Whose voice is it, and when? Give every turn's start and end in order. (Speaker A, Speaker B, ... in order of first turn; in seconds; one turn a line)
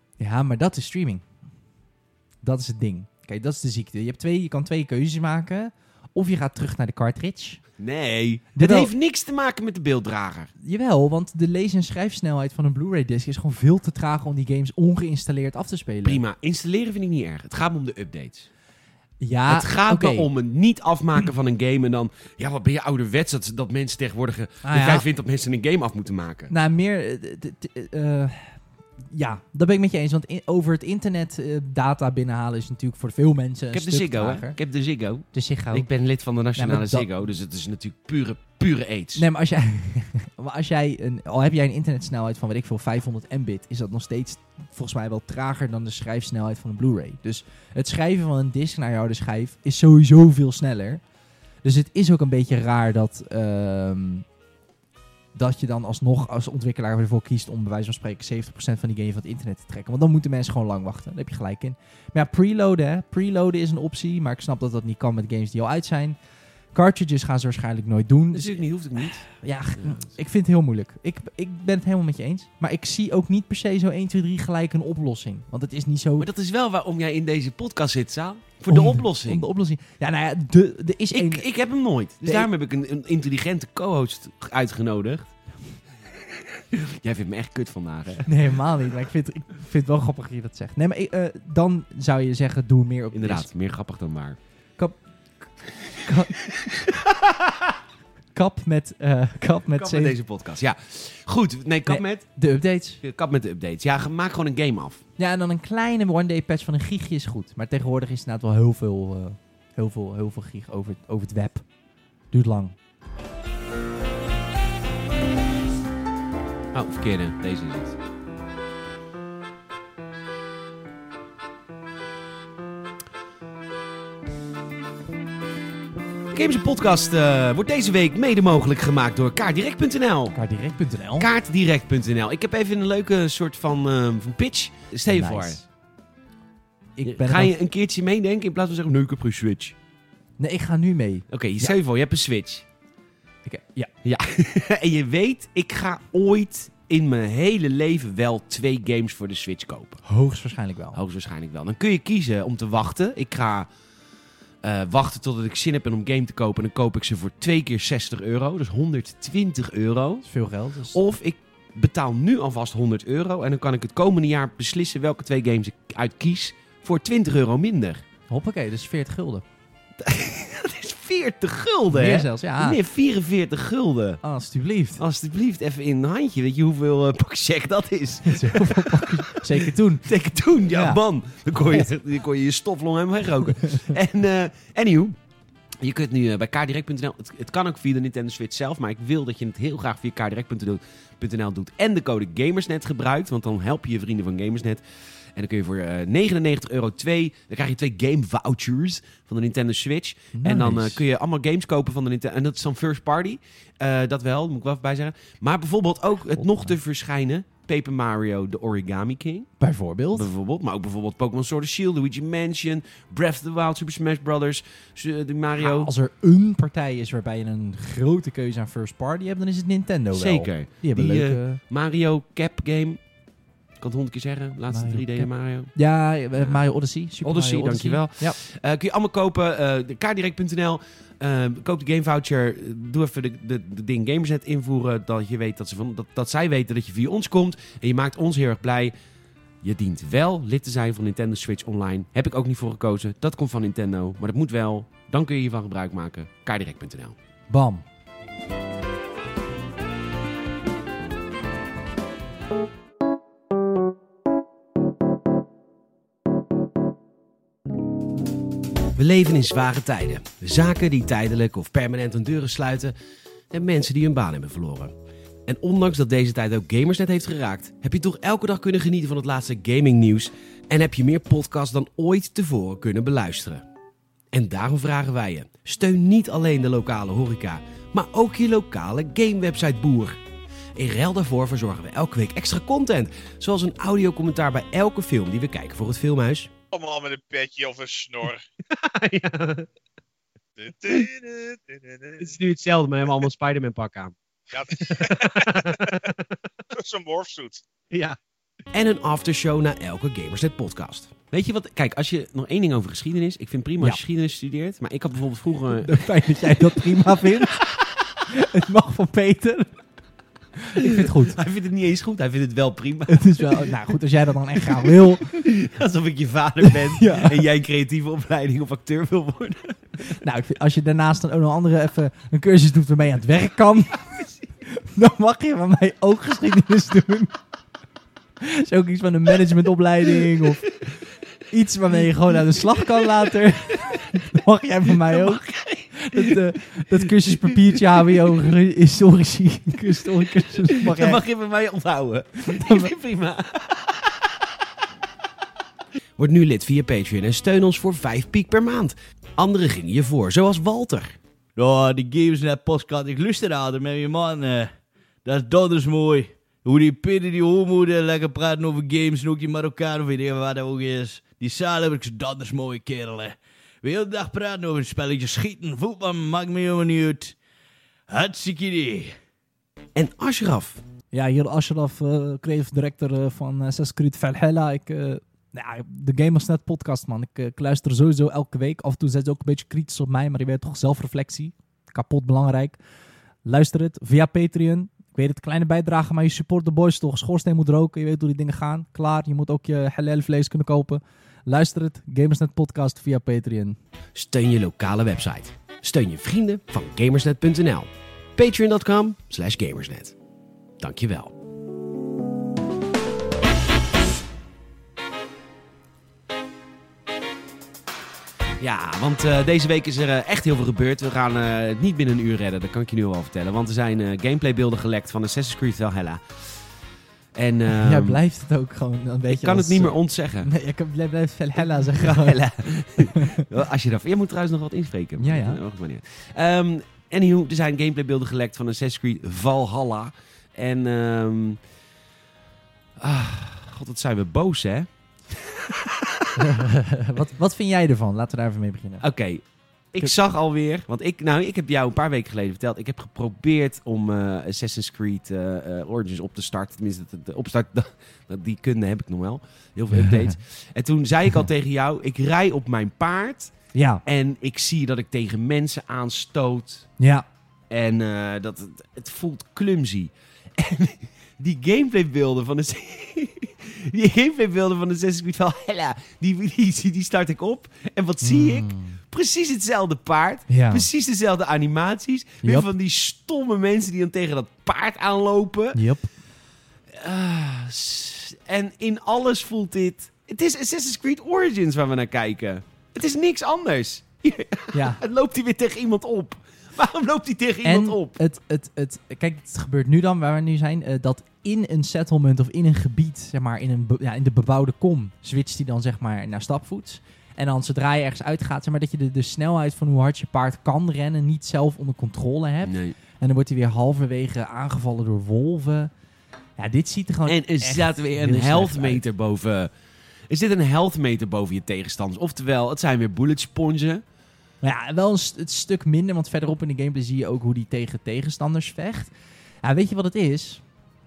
Speaker A: 0.2-1.2
Speaker A: 2.4-7.6
Speaker B: 7.8-10.5
Speaker A: 8.5-8.9
Speaker A: 10.6-16.2
Speaker B: 16.0-18.5
Speaker A: 19.2-20.3
Speaker B: 19.5-26.5
Speaker A: 24.6-25.1
Speaker A: 26.5-28.6
Speaker A: 29.1-34.6
Speaker B: 33.7-39.2
Speaker A: 35.3-35.9
Speaker A: 36.5-37.1
Speaker A: 39.1-51.0
Speaker A: 51.6-54.2
Speaker A: 55.3-66.2
Speaker A: 66.7-76.3
Speaker B: 68.3-69.2
Speaker B: 69.8-70.1
Speaker B: 76.2-79.4
Speaker A: 78.7-81.5
Speaker B: 81.1-85.3
Speaker B: 86.1-88.3
Speaker A: 88.2-93.5
Speaker B: 93.1-94.4
Speaker A: 96.0-96.3
Speaker B: 96.4-97.8
Speaker A: 98.3-100.2
Speaker B: 99.8-102.3
Speaker A: 101.9-103.0
Speaker B: 103.0-105.0
Speaker A: 105.2-111.6
Speaker A: 112.3-112.8
Speaker B: 116.7-118.0
Speaker B: 126.3-130.3
Speaker A: 130.3-131.3
Speaker B: 131.2-135.6
Speaker A: 135.1-135.6
Speaker A: 137.0-137.5
Speaker B: 137.0-139.8
Speaker A: 140.4-141.7
Speaker B: 141.3-142.7
Speaker A: 143.4-143.9
Speaker B: 144.0-150.0
Speaker A: 150.0-151.0
Speaker B: 150.9-153.7
Speaker B: 154.6-160.2
Speaker A: 160.2-161.0
Speaker B: 160.9-168.0
Speaker A: 168.3-169.4
Speaker B: 170.0-174.2
Speaker A: 171.9-172.8
Speaker A: 174.2-175.0
Speaker B: 175.0-185.2
Speaker A: 178.2-180.1
Speaker A: 180.7-181.0
Speaker B: 185.8-194.8
Speaker B: 195.3-209.5
Speaker A: 200.3-201.0
Speaker A: 206.4-206.7
Speaker A: 209.6-210.3
Speaker B: 210.1-215.9
Speaker A: 215.6-221.6
Speaker B: 220.1-223.0
Speaker B: 223.8-225.7
Speaker A: 224.7-228.4
Speaker B: 227.2-238.9
Speaker B: 239.6-247.2
Speaker A: 247.5-247.8
Speaker B: 258.9-262.9
Speaker B: 263.5-264.9
Speaker B: 265.4-273.6
Speaker B: 274.3-280.2
Speaker B: 280.7-286.5
Speaker C: 286.7-288.4
Speaker B: 288.7-289.7
Speaker C: 290.6-292.3
Speaker B: 292.2-294.1
Speaker C: 294.5-296.0
Speaker B: 294.7-296.3
Speaker C: 296.7-297.6
Speaker B: 297.9-298.1
Speaker B: 298.7-308.1
Speaker A: 305.7-307.6
Speaker A: 308.3-309.8
Speaker A: 310.6-311.4
Speaker B: 310.8-313.7
Speaker A: 313.1-315.4
Speaker B: 314.8-320.1
Speaker A: 316.6-317.4
Speaker A: 320.0-327.4
Speaker A: 328.4-330.8
Speaker A: 331.5-341.2
Speaker B: 332.8-333.3
Speaker B: 333.9-334.2
Speaker B: 334.9-338.3
Speaker B: 340.6-344.6
Speaker A: 342.4-342.9
Speaker B: 346.2-351.2
Speaker D: 351.6-354.7
Speaker D: 355.2-367.3
Speaker D: 368.1-369.1
Speaker B: 369.9-370.8
Speaker A: 371.1-382.8
Speaker A: 383.4-393.8
Speaker B: 394.1-400.1
Speaker B: 400.8-401.3
Speaker B: 408.6-416.4
Speaker B: 417.3-418.2
Speaker A: 417.7-423.4
Speaker B: 419.3-420.5
Speaker B: 421.8-431.6
Speaker A: 425.2-425.6
Speaker B: 433.0-436.5
Speaker A: 436.4-439.0
Speaker B: 439.0-453.5
Speaker A: 449.9-450.4
Speaker A: 453.7-454.0
Speaker B: 454.0-456.9
Speaker A: 457.0-457.2
Speaker B: 457.7-475.8
Speaker A: 468.2-469.0
Speaker A: 470.5-470.9
Speaker A: 472.4-472.7
Speaker A: 475.7-476.1
Speaker B: 476.9-488.2
Speaker A: 484.7-485.0
Speaker A: 487.6-505.9
Speaker B: 502.6-502.9
Speaker A: 506.6-509.1
Speaker B: 507.2-509.7
Speaker B: 510.3-514.0
Speaker A: 514.6-519.1
Speaker A: 519.6-520.6